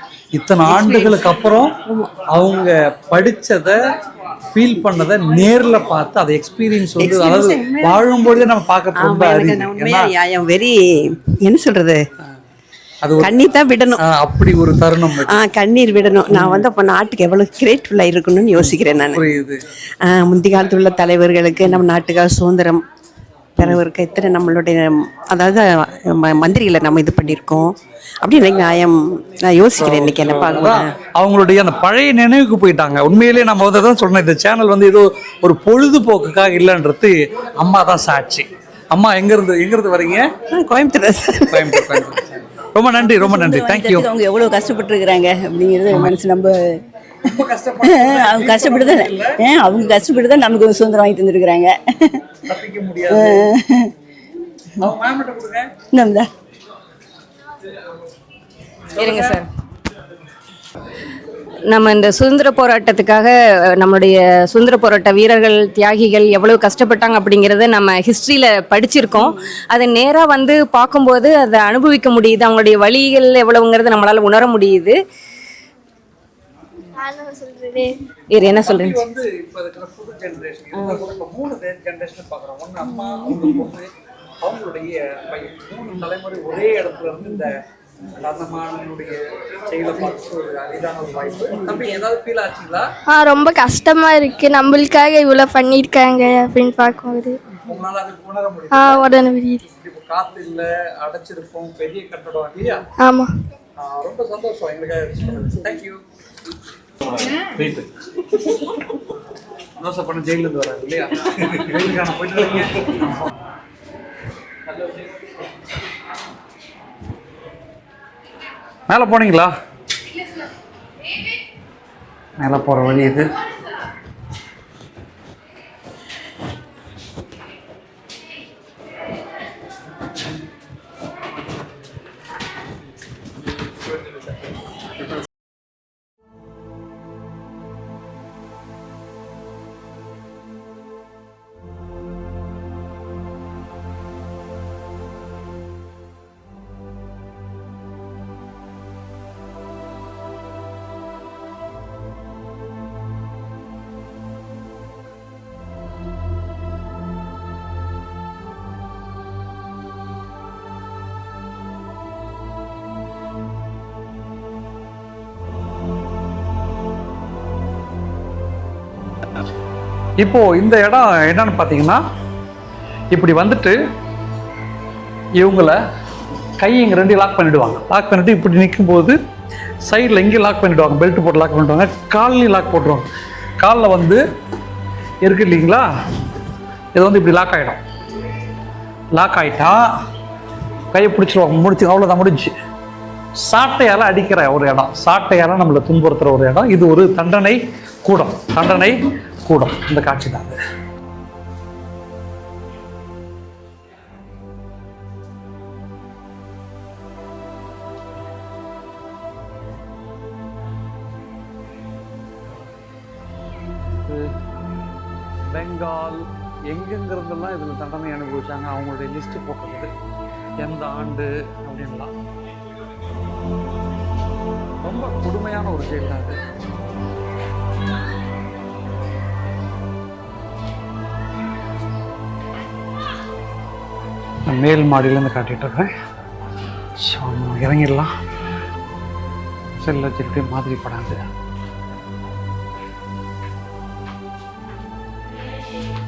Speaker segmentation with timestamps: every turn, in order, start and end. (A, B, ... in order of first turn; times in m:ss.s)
0:00.3-0:01.8 A
0:00.6-0:01.1 B
0:02.3-0:03.8 A
0:04.5-0:10.1 A
0:07.0-0:08.0 B
0:09.0-0:12.0 B
0:13.0-0:13.4 A
0:13.2-0:14.0 B
0:14.0-0:15.4 A
0:15.1-0:19.2 B
0:16.3-0:16.7 A
0:18.6-0:19.6 A
0:20.0-0:22.8 B
0:23.6-0:30.9 B
0:29.8-0:40.3 A
0:40.5-0:42.0 B
0:41.5-0:44.1 A
0:43.0-0:46.8 C
0:45.9-0:46.2 A
0:47.2-0:49.4 A
0:47.8-0:52.2 C
0:52.4-0:53.5 A
0:53.1-0:53.9 C
0:54.8-0:55.8 A
0:55.9-0:56.3 C
0:58.9-0:59.4 A
0:59.0-0:59.5 D
1:01.7-1:15.0 D
1:17.0-1:18.0 E
1:18.3-1:19.0 D
1:18.4-1:23.9 A
1:24.4-1:27.6 A
1:28.1-1:32.8 A
1:33.1-1:37.4 E
1:37.6-1:39.0 A
1:38.7-1:39.6 E
1:39.6-1:42.9 A
1:43.0-1:43.3 E
1:43.8-1:46.0 A
1:47.3-1:47.9 A
1:49.8-1:53.3 A
1:58.9-1:59.5 A
2:02.4-2:03.3 A
2:50.2-2:52.0 A
2:53.1-2:53.8 A
2:55.4-2:55.8 A
2:56.6-2:59.2 A
2:59.9-3:03.1 A
3:03.6-3:04.2 A
3:05.2-3:05.9 A
3:07.0-3:07.8 A
3:09.1-3:09.9 A
3:10.9-3:12.5 A
3:13.4-3:20.6 A
3:34.0-3:34.3 A
3:35.5-3:39.9 A
3:40.6-3:42.1 A
3:44.8-3:46.4 A
3:54.5-3:55.9 A
3:57.0-3:58.1 A
3:59.8-4:01.2 A